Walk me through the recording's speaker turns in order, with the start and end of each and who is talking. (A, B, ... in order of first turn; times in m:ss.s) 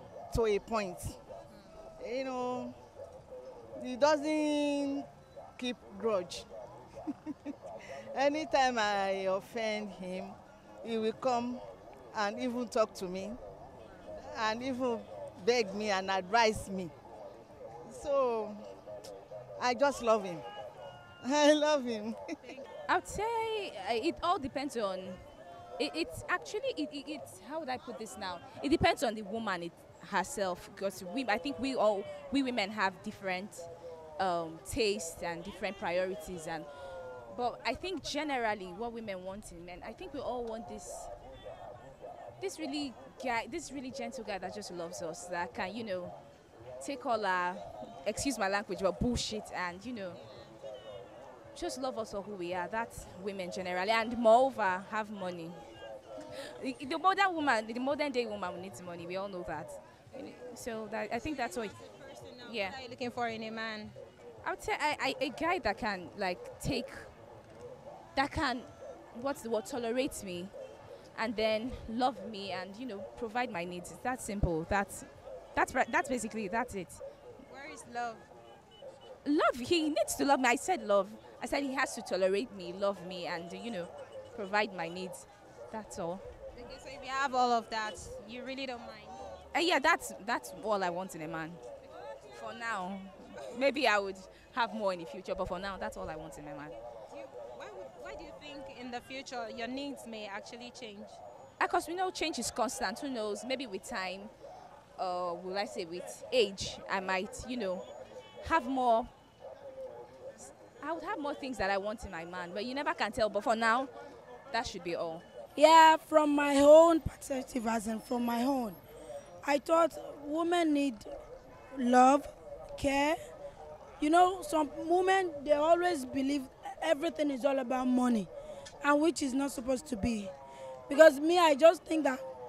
0:00.3-0:01.2 A
0:02.0-0:02.8 A
0:03.8-0:06.5 A
0:08.1-0:13.4 A
0:14.2-0:16.9 A
0:17.9-0:18.6 A
0:19.6-0:20.4 A
0:21.2-0:22.4 A
0:22.9-0:25.2 B
0:25.8-0:33.7 B
0:34.2-0:36.7 B
0:37.3-0:41.1 B
0:42.4-0:46.1 B
0:46.8-0:50.2 B
0:51.6-0:55.6 B
0:56.6-1:01.8 B
1:01.1-1:04.0 C
1:02.4-1:02.8 B
1:04.4-1:07.1 B
1:08.2-1:10.5 B
1:11.2-1:17.0 B
1:17.5-1:18.2 C
1:19.2-1:26.2 B
1:26.6-1:29.3 C
1:29.5-1:31.6 B
1:32.3-1:36.8 B
1:37.1-1:41.2 C
1:41.6-1:44.3 B
1:45.0-1:47.8 B
1:48.4-1:49.1 B
1:50.7-1:53.9 B
1:54.5-1:55.2 B
1:55.6-1:58.8 D
1:59.4-2:01.1 D
2:01.8-2:03.2 D
2:04.0-2:08.3 D
2:08.8-2:10.3 D
2:10.9-2:12.2 D